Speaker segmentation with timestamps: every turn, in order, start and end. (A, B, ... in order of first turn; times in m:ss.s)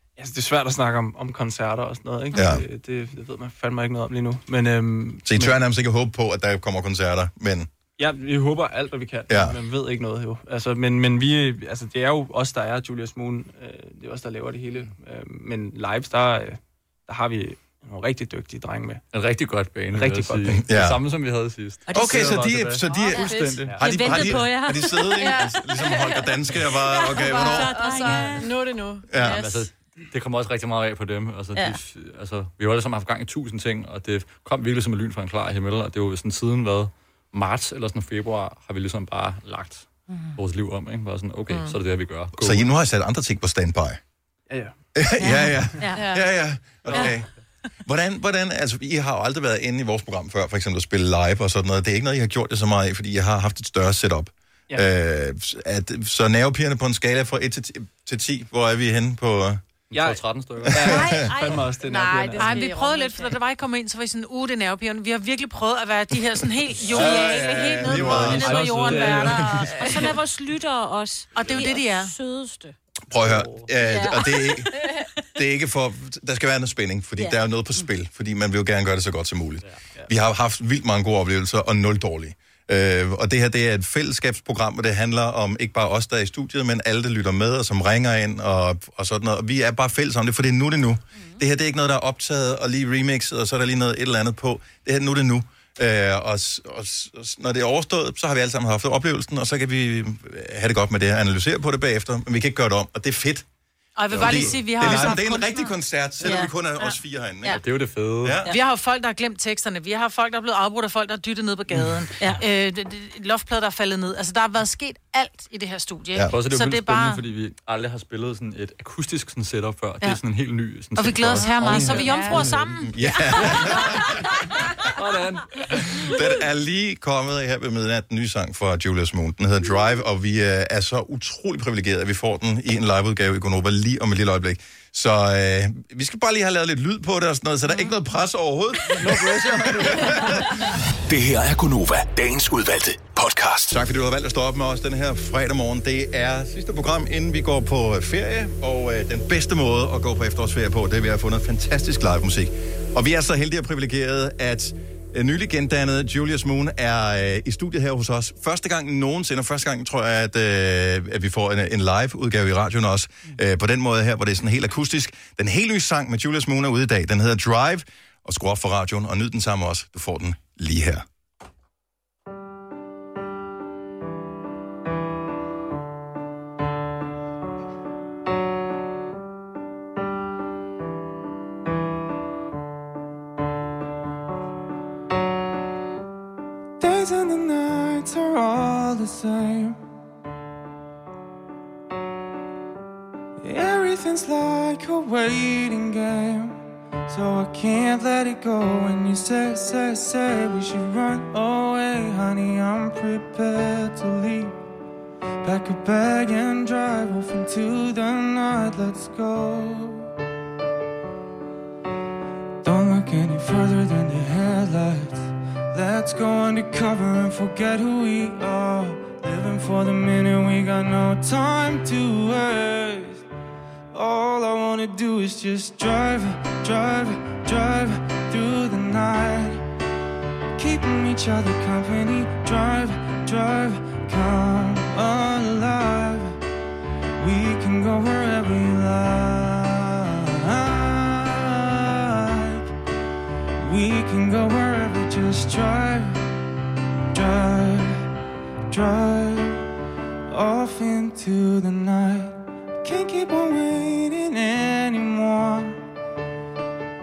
0:00.2-0:05.6 A
0:02.3-0:02.6 B
0:05.2-0:07.7 B
0:08.0-0:19.0 A
0:09.3-0:09.6 B
0:19.1-0:23.8 C
0:19.9-0:20.6 A
0:20.5-0:21.0 B
0:21.8-0:22.3 D
0:21.9-0:27.8 B
0:23.1-0:25.5 D
0:23.2-0:23.6 E
0:23.7-0:24.3 A
0:26.9-0:28.6 D
0:27.6-0:29.6 E
0:29.1-0:29.4 B
0:29.2-0:42.7 C
0:40.1-0:40.4 D
0:41.5-0:41.8 E
0:42.4-0:44.0 B
0:44.5-0:45.7 A
0:45.0-0:47.3 B
0:45.2-0:46.2 D
0:46.8-0:47.2 A
0:47.8-0:59.6 B
0:59.9-1:00.8 C
0:59.9-1:02.6 A
1:00.6-1:01.5 B
1:00.8-1:03.4 D
1:01.9-1:02.8 E
1:02.4-1:10.0 F
1:06.9-1:08.7 B
1:07.0-1:12.7 D
1:07.8-1:10.1 A
1:11.3-1:12.1 F
1:13.1-1:14.8 B
1:13.2-1:13.7 A
1:13.8-1:15.0 D
1:15.4-1:43.4 B
1:17.2-1:17.8 D
1:44.0-1:45.7 F
1:44.1-1:47.6 B
1:44.8-1:45.1 A
1:46.2-1:46.5 D
1:47.5-1:48.4 C
1:48.2-1:48.5 B
1:48.5-1:57.2 F
1:56.3-2:02.5 C
2:00.9-2:03.5 F
2:01.6-2:02.5 D
2:02.9-2:04.2 B
2:04.7-2:06.1 C
2:05.7-2:20.4 B
2:19.0-2:19.8 C
2:21.1-2:23.7 G
2:23.7-2:51.0 B
3:06.8-3:09.8 H
3:13.4-3:24.6 H
3:25.4-3:30.1 H
3:32.6-3:43.2 H
3:43.9-3:49.6 H
3:50.6-3:56.4 H
3:57.2-4:02.7 H
4:03.6-4:06.2 H
4:07.1-4:08.0 H
4:08.7-4:09.6 H
4:10.3-4:15.8 H